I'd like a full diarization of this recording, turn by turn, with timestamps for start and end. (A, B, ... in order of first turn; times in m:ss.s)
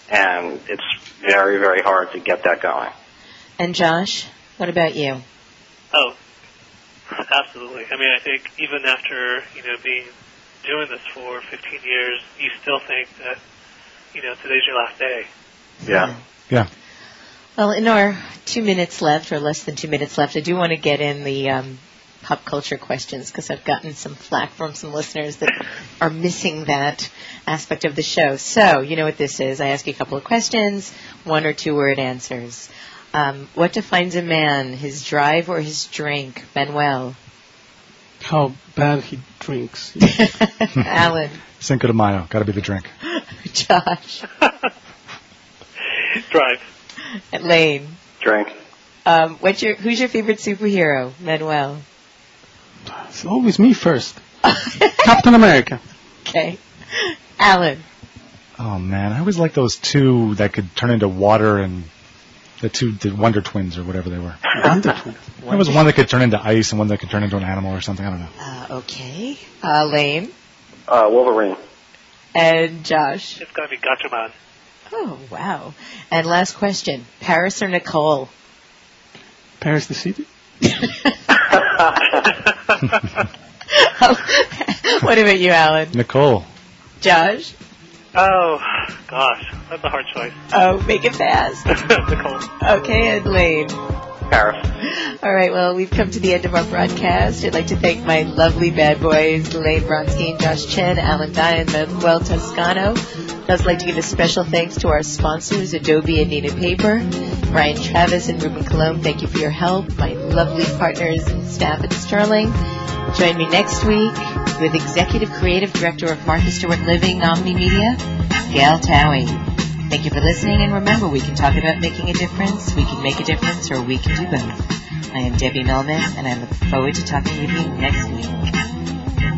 0:00.1-0:02.9 A
0:03.6-0:05.2 B
0:07.1-0:10.1 C
0:10.6-0:13.4 C
0:14.1-0:15.3 C
0:15.8-0:16.1 A
0:15.9-0:16.2 B
0:17.6-0:37.2 B
0:38.2-0:40.2 D
0:40.0-0:41.4 B
0:41.6-0:42.9 E
0:43.0-0:44.2 B
0:46.1-0:46.6 C
0:47.3-0:48.0 B
0:48.2-0:48.5 A
0:49.0-0:51.8 B
0:52.9-0:54.2 D
0:54.4-0:55.0 B
0:55.0-0:55.8 D
0:56.2-0:57.8 B
0:58.6-1:01.9 E
1:02.6-1:04.4 E
1:04.5-1:05.2 D
1:05.4-1:05.8 B
1:05.5-1:08.3 E
1:08.4-1:10.3 B
1:10.9-1:11.6 A
1:12.3-1:13.4 B
1:13.4-1:14.3 C
1:14.9-1:18.3 B
1:19.6-1:20.3 D
1:20.6-1:21.2 B
1:21.6-1:22.2 A
1:23.7-1:26.0 B
1:25.9-1:26.5 E
1:27.0-1:27.5 B
1:28.1-1:30.4 C
1:30.5-1:31.7 B
1:31.7-1:32.5 C
1:32.6-1:33.8 B
1:34.3-1:34.7 A
1:34.8-1:52.6 B
1:53.1-2:04.6 B
2:05.1-2:08.4 B